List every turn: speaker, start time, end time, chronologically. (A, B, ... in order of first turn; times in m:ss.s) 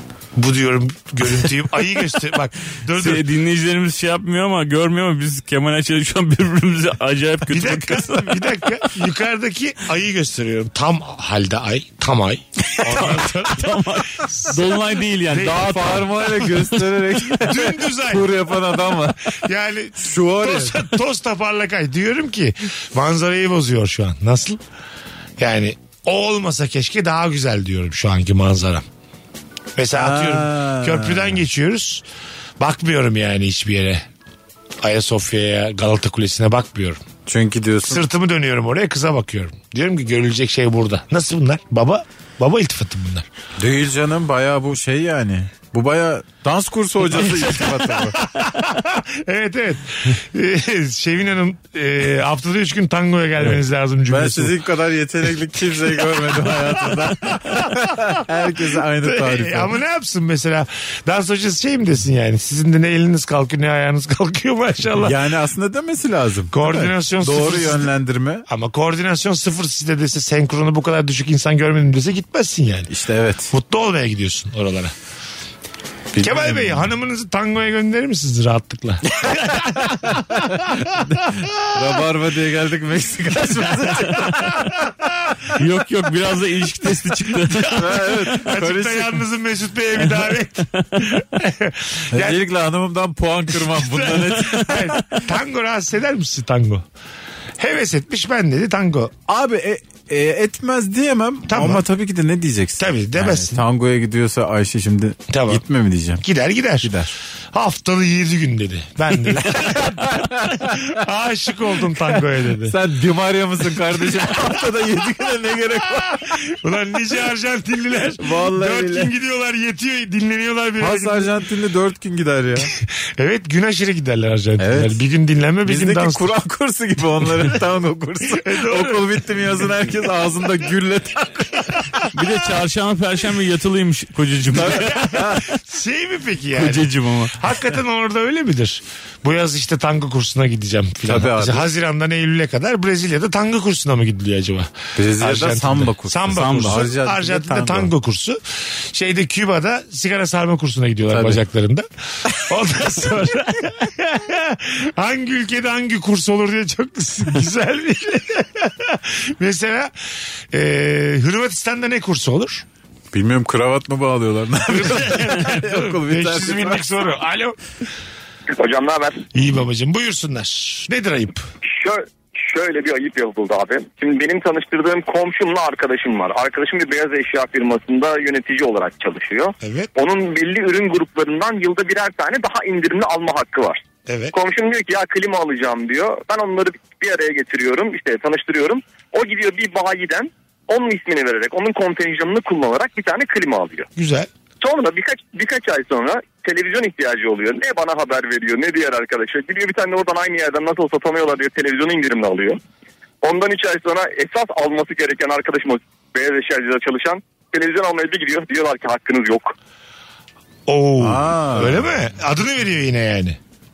0:00.4-0:03.2 A
0:02.9-0:08.5 B
0:07.5-0:14.6 A
0:12.8-0:17.2 B
0:15.3-0:15.6 A
0:15.4-0:19.4 C
0:17.3-0:18.3 A
0:19.4-0:24.6 A
0:20.0-0:20.8 C
0:25.4-0:28.8 A
0:29.8-0:32.0 A
0:29.9-0:31.4 C
0:32.6-0:34.0 A
0:34.8-0:37.0 A
0:37.3-0:38.0 C
0:37.9-0:43.3 A
0:43.6-0:48.2 C
0:48.1-0:54.6 A
0:54.1-0:59.8 C
0:55.9-0:58.2 A
0:58.8-1:05.2 A
1:05.0-1:08.5 C
1:06.5-1:07.9 A
1:08.5-1:12.9 A
1:12.9-1:13.5 C
1:13.5-1:14.9 A
1:16.1-1:16.9 C
1:16.2-1:21.3 A
1:19.3-1:24.6 C
1:23.9-1:25.3 A
1:25.6-1:27.9 B
1:27.5-1:32.4 A
1:27.7-1:29.2 C
1:32.1-1:35.0 C
1:33.6-1:36.8 A
1:37.6-1:39.1 A
1:39.3-1:46.2 C
1:41.5-1:41.8 A
1:42.8-1:43.6 A
1:45.3-1:45.6 A
1:46.2-1:46.9 A
1:46.8-1:47.2 C
1:47.5-1:52.7 A
1:49.2-1:51.0 C
1:51.9-1:56.4 C
1:54.0-1:54.5 A
1:56.4-2:01.3 A
1:58.2-1:59.1 C
2:00.8-2:02.7 C
2:03.2-2:06.3 A
2:04.6-2:05.0 C
2:05.6-2:12.3 C
2:08.3-2:09.1 A
2:12.1-2:15.1 B
2:14.5-2:15.5 C
2:14.7-2:39.9 A
2:16.6-2:17.5 B
2:21.0-2:21.7 C
2:25.0-2:27.9 C
2:26.3-2:26.9 B
2:31.1-2:31.4 C
2:40.5-2:42.6 A
2:43.1-2:46.9 C
2:44.7-2:47.6 A
2:48.6-2:49.3 D
2:49.3-2:51.5 A
2:51.7-3:13.9 D
2:59.6-2:59.9 A
3:04.1-3:04.3 A
3:14.0-3:14.3 A
3:14.6-3:22.6 D
3:23.2-3:29.6 D
3:30.7-3:33.4 A
3:31.0-3:32.0 C